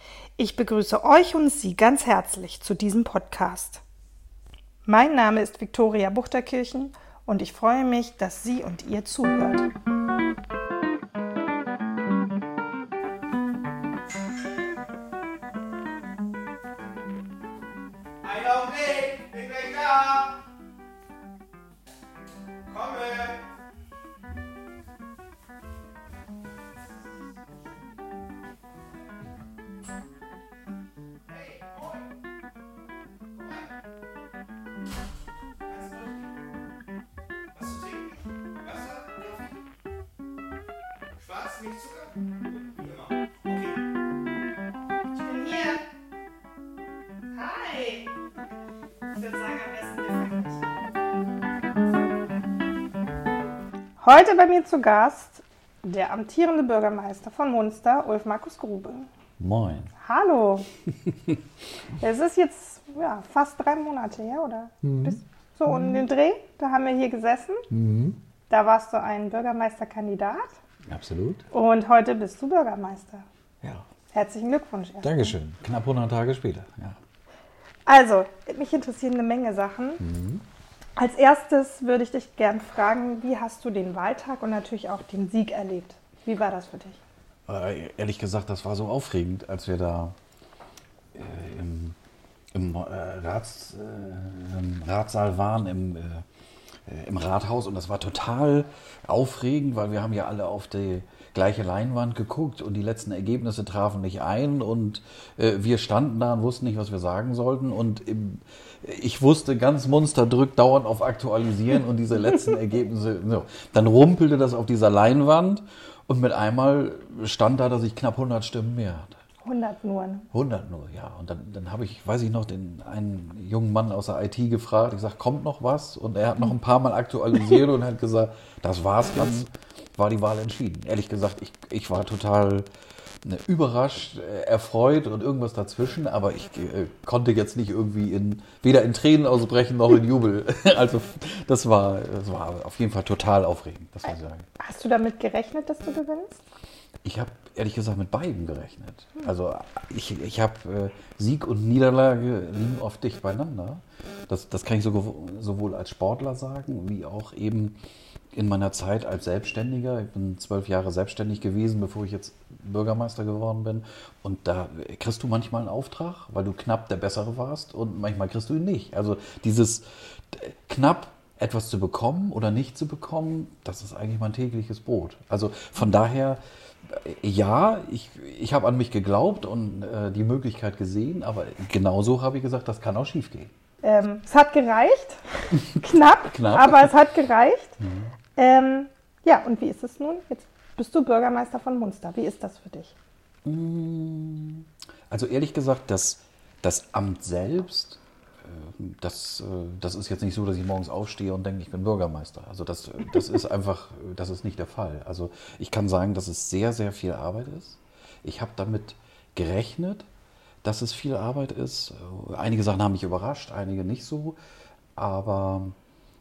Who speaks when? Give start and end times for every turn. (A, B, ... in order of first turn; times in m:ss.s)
0:00.4-0:03.8 A
0:04.8-0:09.7 A
0:18.2-0:20.4 B
0:22.7-0:23.4 B
0:31.3-0:32.1 B
0:33.3-0:33.7 B
0:35.7-0:36.4 B
0:37.5-0:39.6 B
0:41.1-0:43.8 B
0:45.1-0:45.8 A
0:47.3-0:48.1 A
0:49.1-0:50.8 A
0:54.0-0:59.1 A
0:59.4-0:59.9 C
1:00.0-1:00.7 A
1:02.0-1:07.7 A
1:04.8-1:05.1 C
1:07.7-1:08.2 C
1:08.5-1:10.6 A
1:10.9-1:11.4 C
1:11.5-1:13.2 A
1:14.1-1:15.3 A
1:15.0-1:17.0 C
1:17.8-1:20.0 A
1:20.0-1:20.4 C
1:21.0-1:27.0 A
1:27.5-1:30.2 C
1:31.1-1:32.0 C
1:32.5-1:36.2 C
1:36.8-1:59.2 C
1:59.4-2:00.3 A
2:00.3-2:12.7 C
2:13.2-2:24.5 C
2:24.6-2:26.4 A
2:27.0-2:37.8 C
2:38.3-3:03.5 C
3:03.8-3:07.8 A
3:05.5-3:06.9 C
3:07.8-3:08.1 C
3:08.4-3:13.0 A
3:13.4-3:30.1 C
3:30.6-3:34.4 C
3:35.0-3:35.8 C